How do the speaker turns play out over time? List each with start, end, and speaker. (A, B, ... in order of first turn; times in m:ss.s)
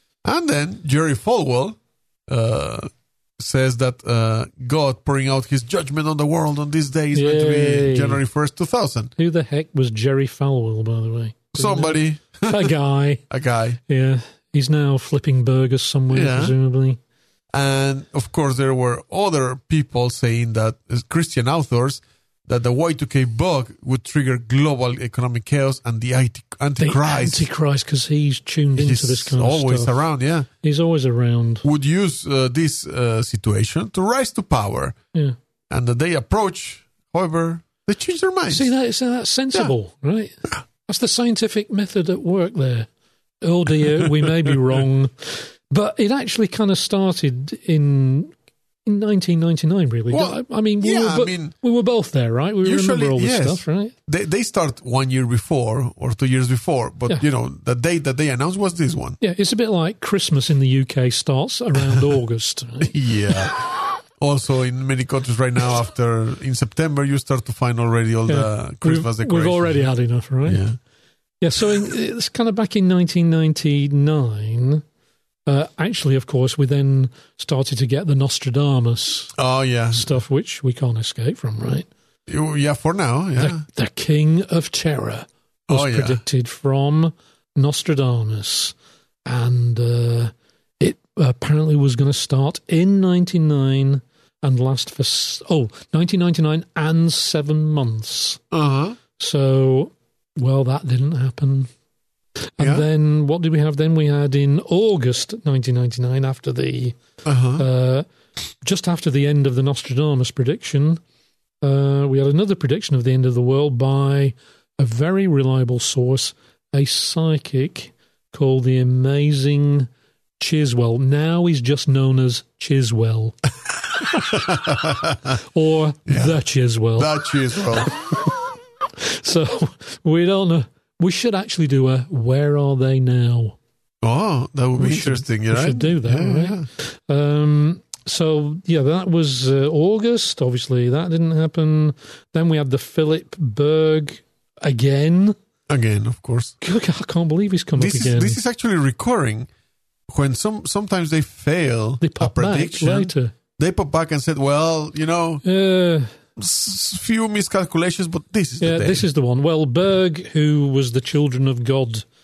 0:00.2-0:09.1 A
0:07.1-0:08.2 B
0:09.2-0:13.2 B
0:11.6-0:12.7 A
0:13.3-0:13.8 A
0:13.9-0:17.0 B
0:16.1-0:16.6 A
0:17.5-0:27.5 A
0:26.8-0:29.9 B
0:28.8-0:30.5 A
0:30.6-0:31.6 B
0:31.6-0:35.0 A
0:35.7-0:38.7 A
0:38.5-0:42.9 B
0:43.4-0:48.3 B
0:48.8-0:54.0 B
0:50.1-0:51.5 A
0:52.6-0:59.2 A
0:59.2-1:03.6 B
1:02.8-1:09.9 A
1:08.3-1:10.6 B
1:10.4-1:10.8 A
1:11.4-1:14.8 B
1:15.5-1:19.3 B
1:19.4-1:20.2 A
1:19.9-1:21.9 B
1:22.3-1:23.6 A
1:23.4-1:28.8 B
1:25.7-1:26.2 A
1:29.3-1:38.4 B
1:38.5-1:39.0 A
1:39.2-1:41.7 B
1:42.6-1:47.0 B
1:42.6-1:42.8 A
1:47.2-1:47.6 A
1:47.6-1:48.1 B
1:48.6-1:51.0 B
1:51.6-2:03.4 B
2:04.0-2:04.6 B
2:04.2-2:05.4 A
2:05.4-2:08.4 B
2:06.1-2:06.4 A
2:07.0-2:08.0 A
2:09.0-2:13.6 B
2:14.0-2:16.7 A
2:14.8-2:25.4 B
2:25.7-2:26.6 A
2:26.6-2:28.4 B
2:27.8-2:29.5 A
2:30.1-2:35.4 A
2:32.0-2:33.3 B
2:35.4-2:36.1 B
2:36.4-2:39.0 A
2:38.6-2:42.1 B